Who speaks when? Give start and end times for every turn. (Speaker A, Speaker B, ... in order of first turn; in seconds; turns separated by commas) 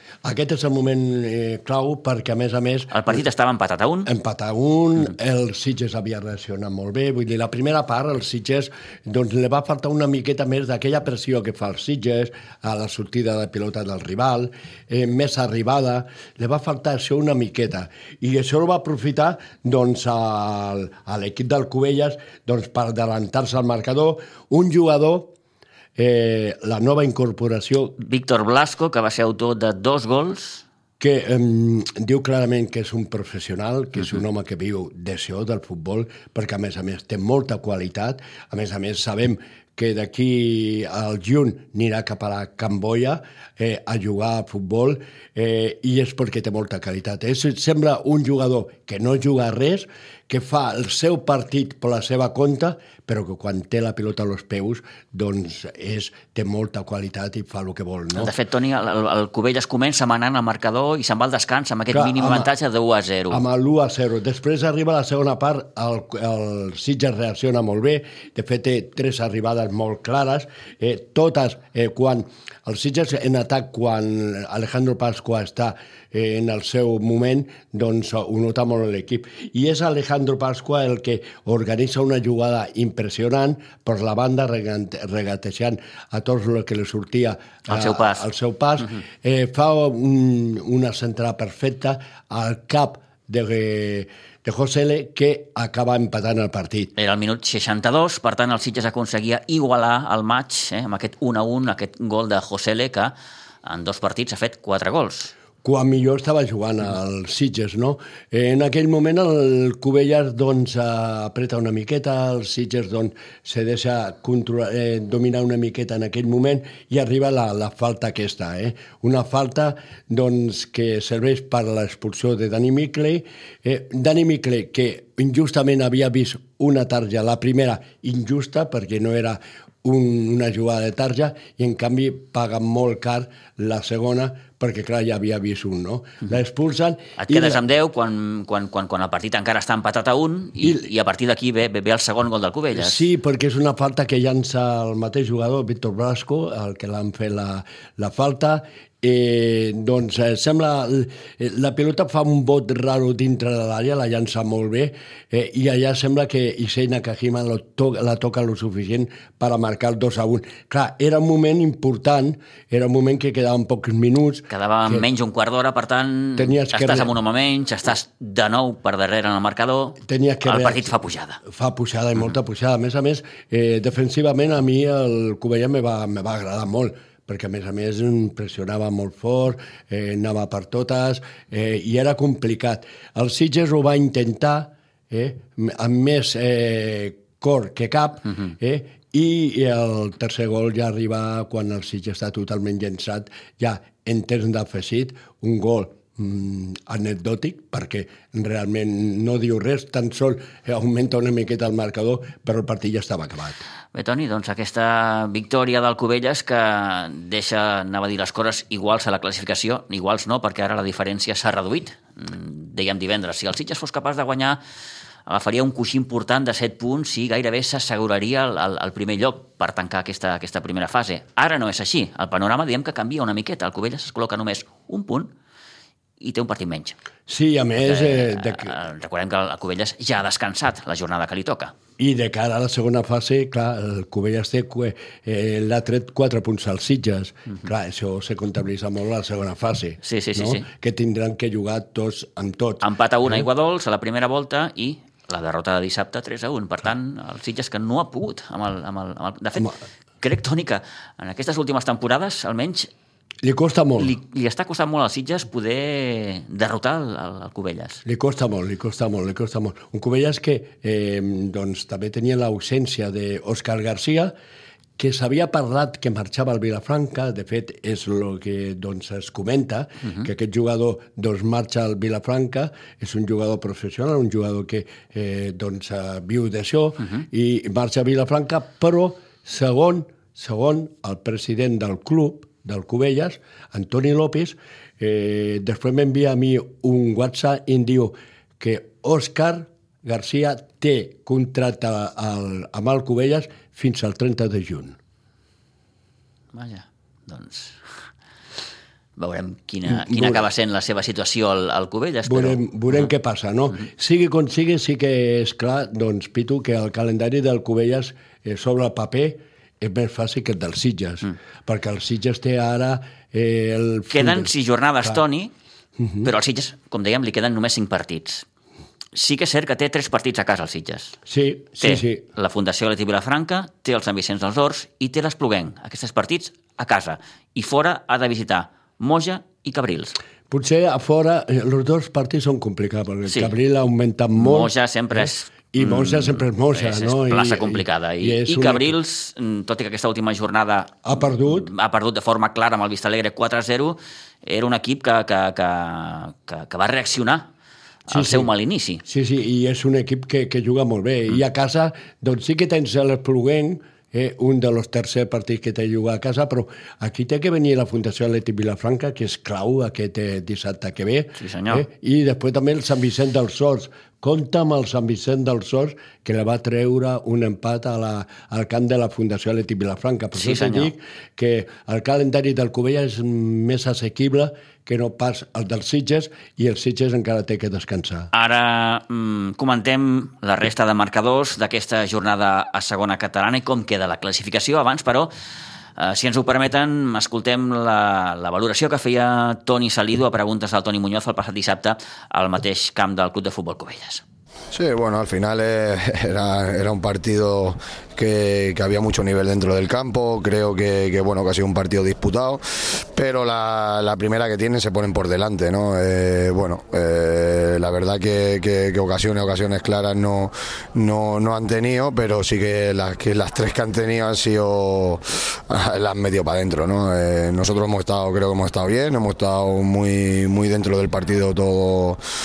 Speaker A: 0.2-3.2, Speaker B: 2.9-4.1, Speaker A: 4.1-25.3, Speaker A: 26.0-27.9, Speaker B: 28.0-30.6, Speaker A: 31.0-58.3, Speaker B: 58.2-63.4, Speaker A: 61.9-62.5, Speaker A: 63.3-96.9, Speaker B: 87.7-88.3, Speaker B: 97.0-103.1, Speaker B: 103.7-105.3, Speaker A: 105.6-137.6, Speaker B: 137.2-143.1, Speaker A: 140.6-140.9, Speaker A: 142.8-165.1, Speaker B: 164.5-171.4, Speaker A: 166.4-167.1, Speaker A: 170.0-170.9, Speaker A: 171.4-203.6, Speaker B: 203.9-214.6, Speaker B: 215.3-225.3, Speaker B: 226.2-226.9, Speaker A: 227.3-228.8, Speaker B: 227.8-231.7, Speaker A: 232.0-243.4, Speaker B: 240.0-240.7, Speaker B: 242.8-249.7, Speaker B: 250.2-252.9, Speaker A: 253.4-254.2, Speaker B: 254.0-258.0, Speaker A: 258.1-264.3, Speaker A: 265.0-295.0, Speaker B: 296.5-297.8, Speaker B: 299.2-303.1, Speaker A: 299.9-300.4, Speaker A: 302.2-314.5, Speaker B: 314.1-315.5, Speaker A: 316.0-316.3, Speaker B: 316.2-318.4, Speaker B: 319.1-321.1, Speaker A: 321.3-322.2, Speaker B: 321.8-330.1, Speaker A: 330.5-338.9, Speaker B: 333.3-333.5, Speaker B: 334.4-347.5, Speaker A: 341.0-341.7, Speaker B: 348.1-349.0, Speaker A: 348.1-348.5, Speaker A: 349.1-378.3, Speaker B: 361.4-361.9, Speaker B: 370.4-370.9, Speaker B: 378.3-385.3, Speaker B: 386.0-394.2, Speaker C: 394.7-422.2